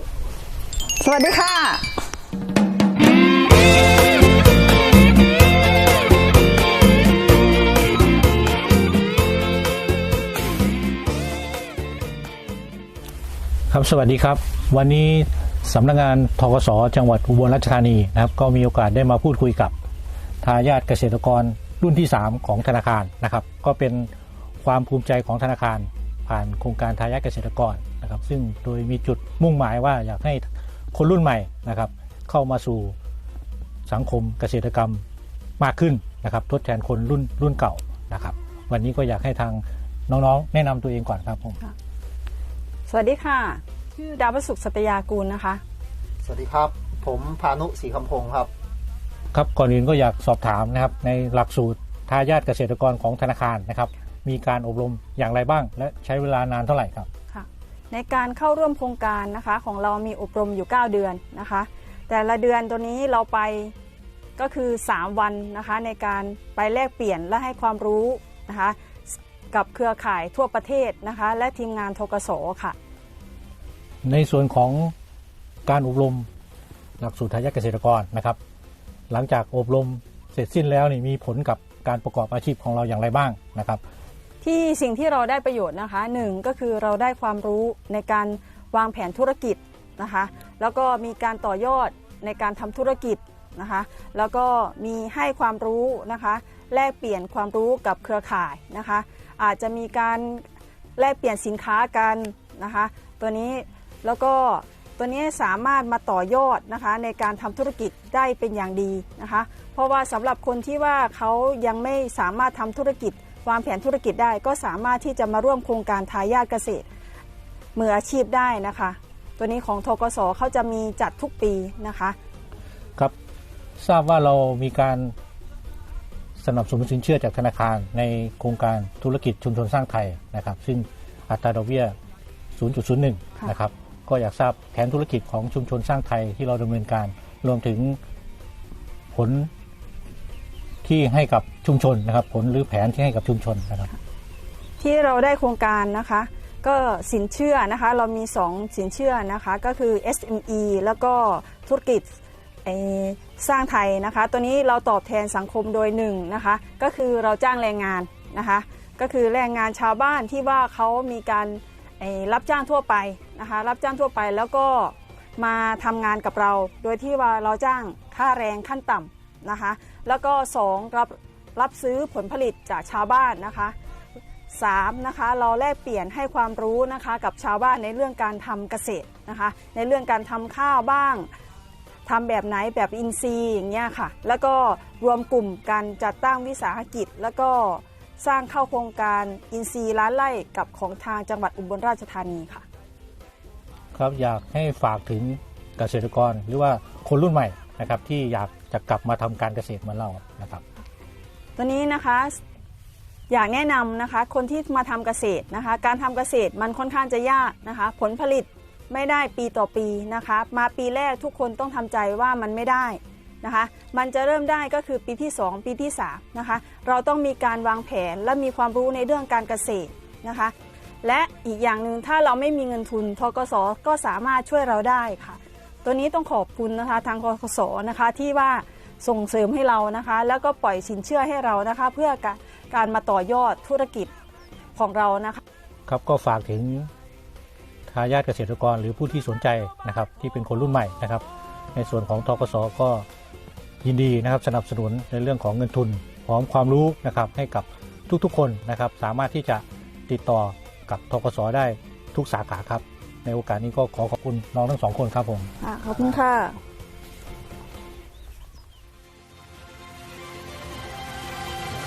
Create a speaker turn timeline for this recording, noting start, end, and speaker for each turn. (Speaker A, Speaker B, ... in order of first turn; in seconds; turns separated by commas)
Speaker A: 1.0-1.9, Speaker B: 13.7-19.7, Speaker B: 20.4-24.1, Speaker B: 24.6-32.9, Speaker B: 33.9-35.0, Speaker B: 35.6-41.6, Speaker A: 42.9-45.6, Speaker C: 46.2-48.5, Speaker B: 49.3-57.1, Speaker A: 57.3-63.7, Speaker A: 64.4-72.8, Speaker B: 74.0-74.9, Speaker B: 75.7-76.2, Speaker B: 77.0-78.4, Speaker B: 79.1-83.8, Speaker A: 84.4-100.4, Speaker A: 101.0-116.8, Speaker A: 117.7-122.2, Speaker B: 123.8-125.1, Speaker B: 126.4-131.9, Speaker B: 132.6-138.0, Speaker B: 139.1-139.5, Speaker B: 140.8-143.9, Speaker A: 144.8-152.1, Speaker A: 152.6-173.7, Speaker A: 174.5-181.3, Speaker A: 182.1-192.6, Speaker B: 193.9-200.6, Speaker A: 201.6-202.4, Speaker A: 203.3-234.1, Speaker A: 234.8-235.4, Speaker B: 235.9-236.9, Speaker B: 237.9-241.2, Speaker B: 241.7-243.0, Speaker B: 243.8-255.5, Speaker A: 255.6-256.6